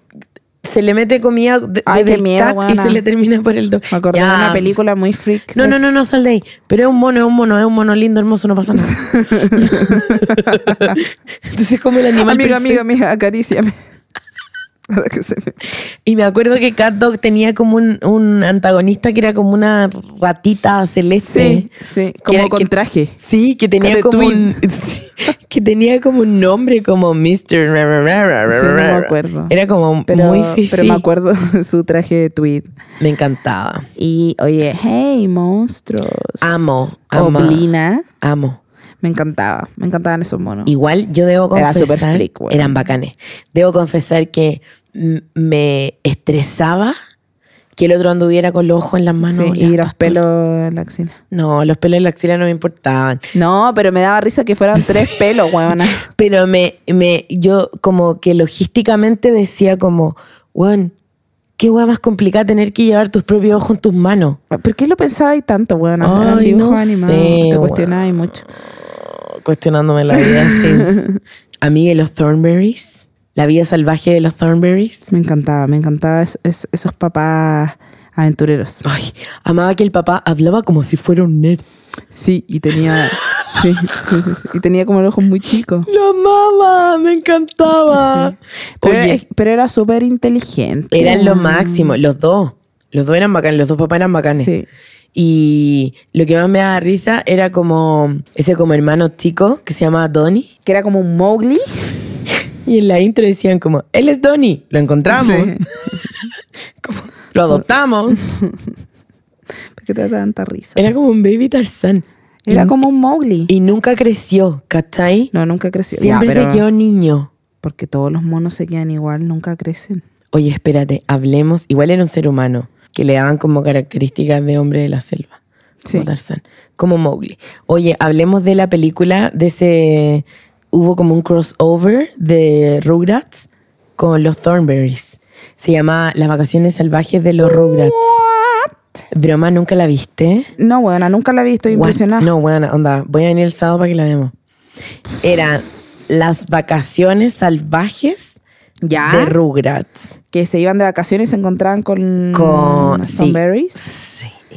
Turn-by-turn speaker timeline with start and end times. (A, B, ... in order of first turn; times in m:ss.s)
0:00.6-0:04.7 A
0:01.9-0:03.0 B
0:03.9-0:05.9 B
0:05.5-0:09.0 A
0:08.9-0:11.0 B
0:09.6-0:12.8 A
0:12.2-0:13.8 B
0:14.9-0:15.6 B
0:16.0-0:21.7 A
0:21.1-0:23.2 B
0:22.3-0:31.0 A
0:23.8-0:24.6 B
0:28.5-0:29.5 B
0:30.1-0:32.7 B
0:33.0-0:33.9 A
0:34.0-0:38.1 B
0:36.4-0:37.7 A
0:38.2-0:38.6 A
0:39.0-0:40.7 B
0:40.7-0:47.0 A
0:41.5-0:42.8 B
0:47.8-0:50.2 A
0:49.2-0:51.2 B
0:51.3-0:53.2 A
0:53.3-0:56.1 B
0:56.0-1:00.9 A
1:01.6-1:04.4 A
1:04.5-1:08.4 B
1:06.0-1:11.0 A
1:10.2-1:11.2 B
1:11.6-1:15.1 A
1:15.1-1:18.8 B
1:18.8-1:21.6 A
1:22.1-1:25.9 B
1:22.8-1:24.0 A
1:25.9-1:29.2 A
1:27.9-1:32.0 B
1:30.9-1:34.5 A
1:34.3-1:34.7 B
1:35.2-1:40.5 A
1:40.6-1:42.0 B
1:42.6-1:45.6 A
1:45.1-1:45.7 B
1:46.8-1:48.2 A
1:48.2-1:48.6 B
1:49.8-1:50.8 B
1:50.8-1:52.8 A
1:52.5-1:53.5 B
1:53.5-1:55.3 A
1:55.3-1:56.6 B
1:56.0-1:57.3 A
1:57.6-2:00.0 B
2:00.3-2:05.4 A
2:05.9-2:18.2 A
2:17.4-2:18.8 B
2:19.1-2:20.5 A
2:20.6-2:22.3 B
2:21.7-2:24.3 A
2:25.2-2:28.4 A
2:28.8-2:29.4 B
2:29.0-2:30.1 A
2:30.3-2:33.9 B
2:32.3-2:34.4 A